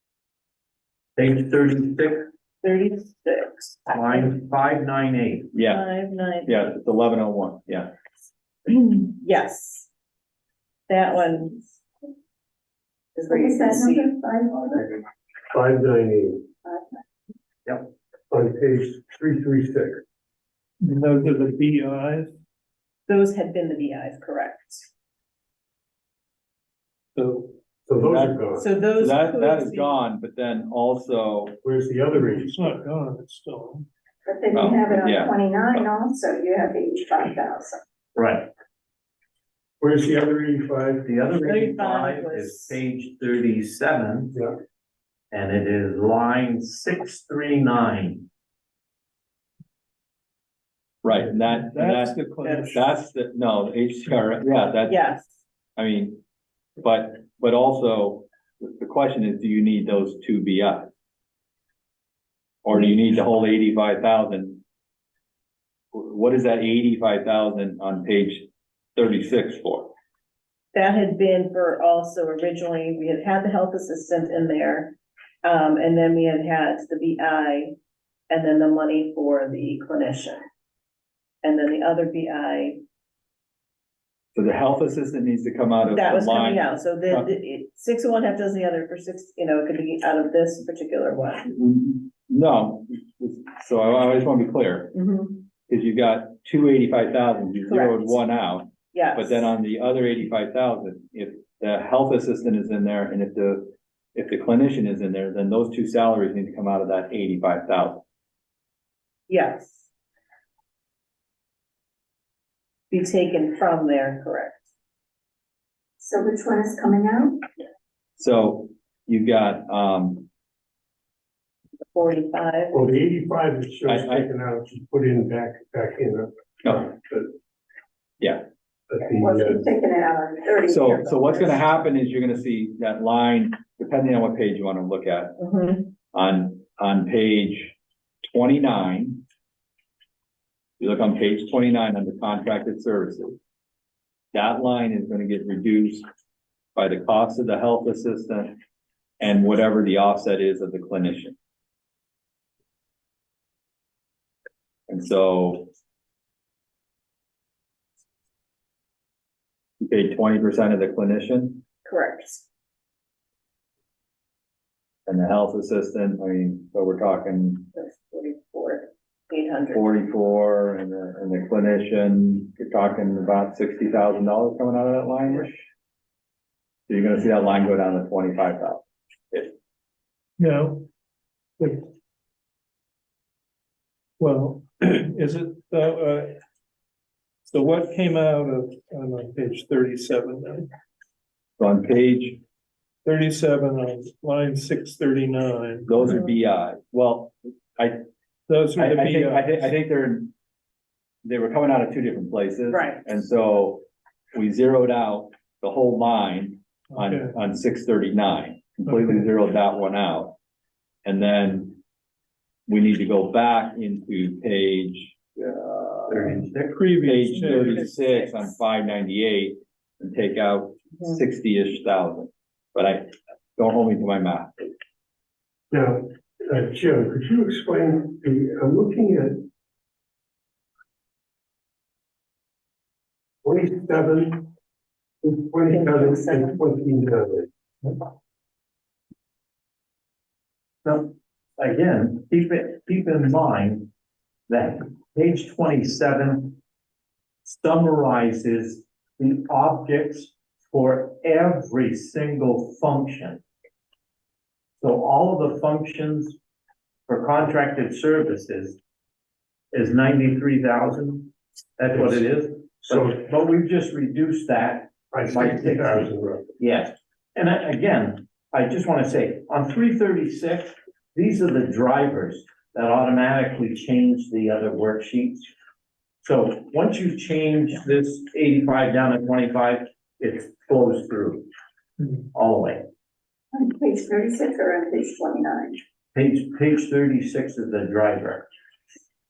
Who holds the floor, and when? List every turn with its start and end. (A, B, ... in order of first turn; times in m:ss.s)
0:01.2-0:02.2 A
0:02.6-0:04.3 B
0:03.9-0:05.5 A
0:05.5-0:05.8 C
0:05.7-0:06.6 B
0:06.5-0:07.9 C
0:08.7-0:09.9 B
0:10.9-0:11.8 B
0:13.2-0:14.1 B
0:13.3-0:14.9 D
0:15.5-0:16.4 E
0:18.3-0:20.0 E
0:20.8-0:22.3 F
0:23.1-0:24.9 B
0:27.2-0:27.6 F
0:27.9-0:28.7 E
0:28.0-0:28.5 C
0:28.6-0:30.0 B
0:29.0-0:31.6 C
0:31.6-0:32.8 E
0:32.2-0:33.9 F
0:34.3-0:37.8 D
0:34.5-0:35.9 C
0:38.2-0:38.5 A
0:39.8-0:41.1 E
0:41.0-0:44.4 A
0:41.4-0:42.8 B
0:45.3-0:48.3 A
0:51.0-0:55.0 C
0:51.2-0:53.0 F
0:52.4-0:52.7 B
0:54.9-0:55.4 B
0:55.8-0:56.2 C
0:56.8-1:00.9 C
1:02.6-1:04.6 C
1:05.9-1:09.9 C
1:10.7-1:17.8 B
1:18.3-1:20.4 B
1:21.4-1:22.8 B
1:24.4-1:27.3 C
1:25.9-1:31.5 B
1:31.5-1:35.0 C
1:34.9-1:35.4 B
1:35.7-1:48.0 C
1:37.7-1:38.2 B
1:38.9-1:39.5 B
1:49.3-1:49.9 B
1:52.9-1:54.6 B
1:56.0-1:57.4 D
1:58.2-2:00.3 C
2:01.9-2:02.8 B
2:02.7-2:07.3 E
2:03.9-2:04.3 C
2:08.2-2:08.4 C
2:08.9-2:09.6 E
2:09.2-2:11.6 D
2:10.7-2:15.4 C
2:15.4-2:15.9 B
2:16.1-2:19.2 C
2:20.8-2:23.4 C
2:24.3-2:26.0 C
2:26.8-2:28.6 C
2:29.2-2:31.4 C
2:34.9-2:35.7 C
2:39.8-2:41.6 C
2:41.8-2:42.5 B
2:45.1-2:47.7 C
2:47.7-2:50.0 B
2:49.7-2:55.6 C
2:56.9-2:59.5 C
3:00.4-3:00.8 F
3:01.6-3:01.9 F
3:04.2-3:06.3 F
3:07.5-3:10.7 F
3:11.6-3:12.4 C
3:13.0-3:16.0 F
3:15.9-3:18.0 C
3:18.5-3:19.7 F
3:18.8-3:20.3 C
3:21.2-3:30.4 C
3:22.7-3:23.0 B
3:26.9-3:27.3 F
3:31.0-3:31.8 C
3:32.7-3:36.4 C
3:36.1-3:36.8 A
3:36.7-3:37.9 F
3:37.0-3:44.7 C
3:37.4-3:38.6 B
3:45.7-3:49.5 E
3:53.4-3:54.5 E
3:55.2-3:57.5 E
3:55.7-3:56.6 B
4:00.8-4:03.9 A
4:04.5-4:06.6 A
4:07.4-4:13.4 A
4:14.8-4:16.4 A
4:17.1-4:18.8 A
4:19.7-4:35.5 A
4:22.9-4:23.2 E
4:25.1-4:26.5 E
4:36.2-4:41.5 A
4:42.3-4:42.8 A
4:43.5-4:45.8 D
4:46.1-4:48.4 A